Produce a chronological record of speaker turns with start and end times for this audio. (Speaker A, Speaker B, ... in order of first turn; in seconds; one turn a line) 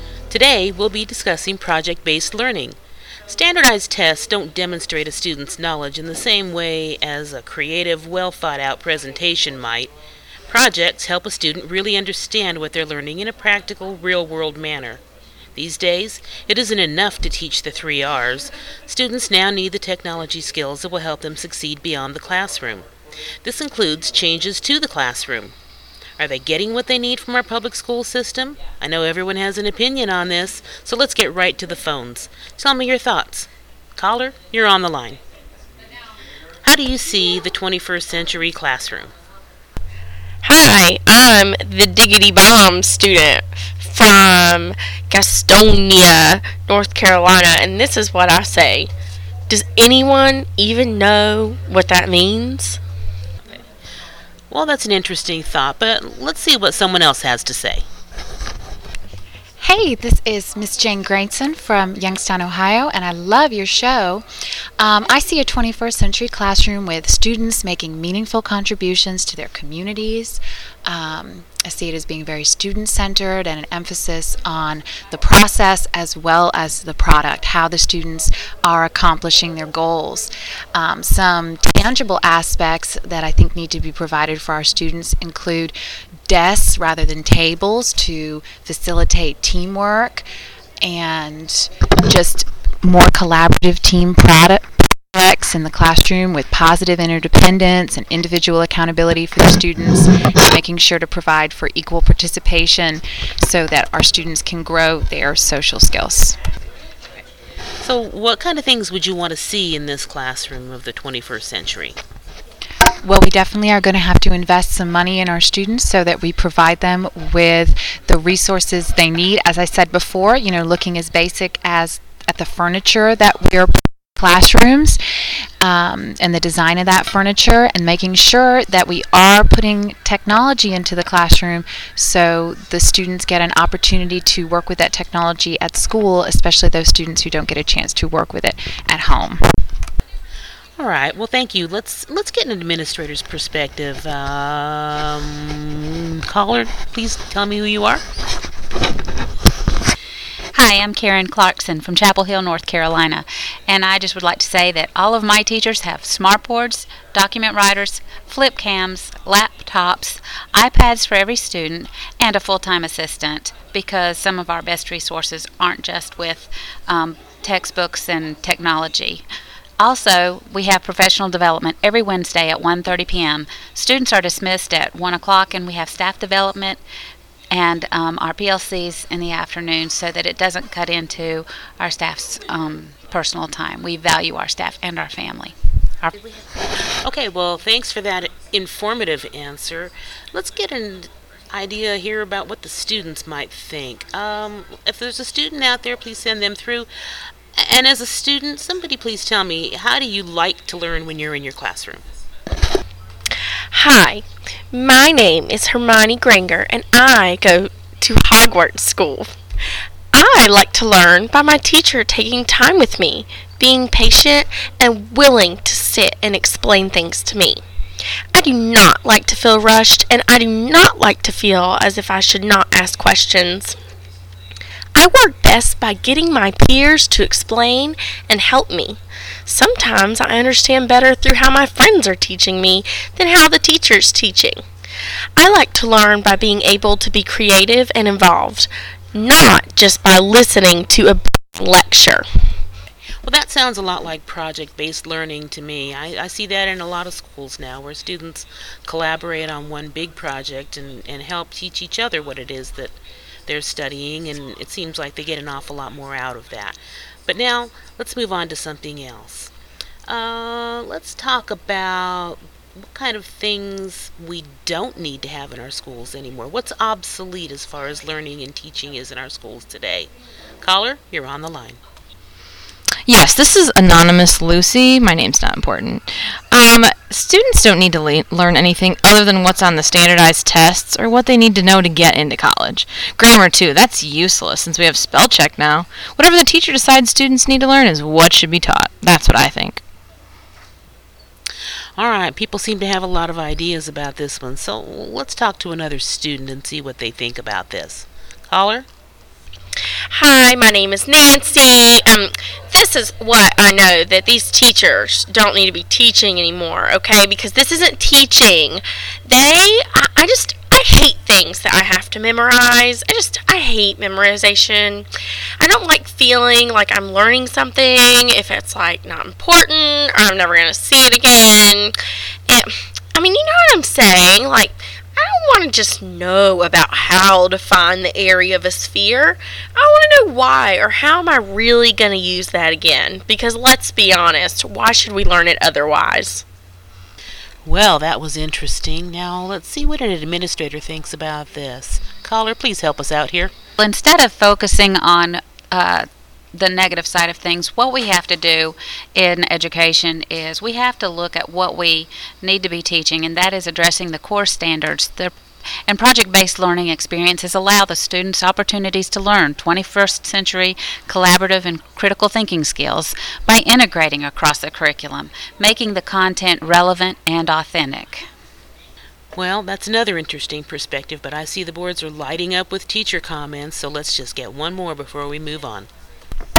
Speaker A: 0.3-2.8
Speaker A: 3.3-9.9
Speaker A: 10.5-15.0
Speaker A: 15.6-22.9
Speaker A: 23.4-25.5
Speaker A: 26.2-35.2
Speaker A: 36.6-39.1
Speaker B: 40.4-48.9
Speaker B: 49.5-52.8
Speaker A: 54.5-57.8
Speaker C: 59.6-64.2
Speaker C: 64.8-85.7
Speaker C: 86.3-90.2
Speaker C: 90.8-106.4
Speaker A: 107.8-112.0
Speaker C: 113.0-125.0
Speaker C: 125.6-139.4
Speaker A: 140.8-148.0
Speaker D: 150.5-169.2
Speaker D: 169.8-176.8
Speaker D: 177.5-186.1
Speaker A: 186.1-186.4
Speaker A: 187.0-196.9
Speaker A: 197.6-202.0
Speaker B: 203.7-209.3
Speaker B: 210.1-217.6
Speaker B: 218.3-223.8
Speaker B: 224.9-234.6
Speaker B: 235.4-242.2
Speaker A: 243.2-252.9
Speaker A: 253.5-259.5
Speaker A: 260.1-262.4
Speaker A: 262.9-270.1
Speaker A: 270.6-271.8
Speaker E: 273.1-289.8
Speaker A: 292.0-298.9
Speaker B: 300.1-315.1
Speaker B: 315.6-321.9
Speaker B: 322.5-336.4
Speaker A: 337.6-343.5
Speaker D: 343.8-355.3
Speaker D: 355.9-368.2
Speaker A: 369.4-375.9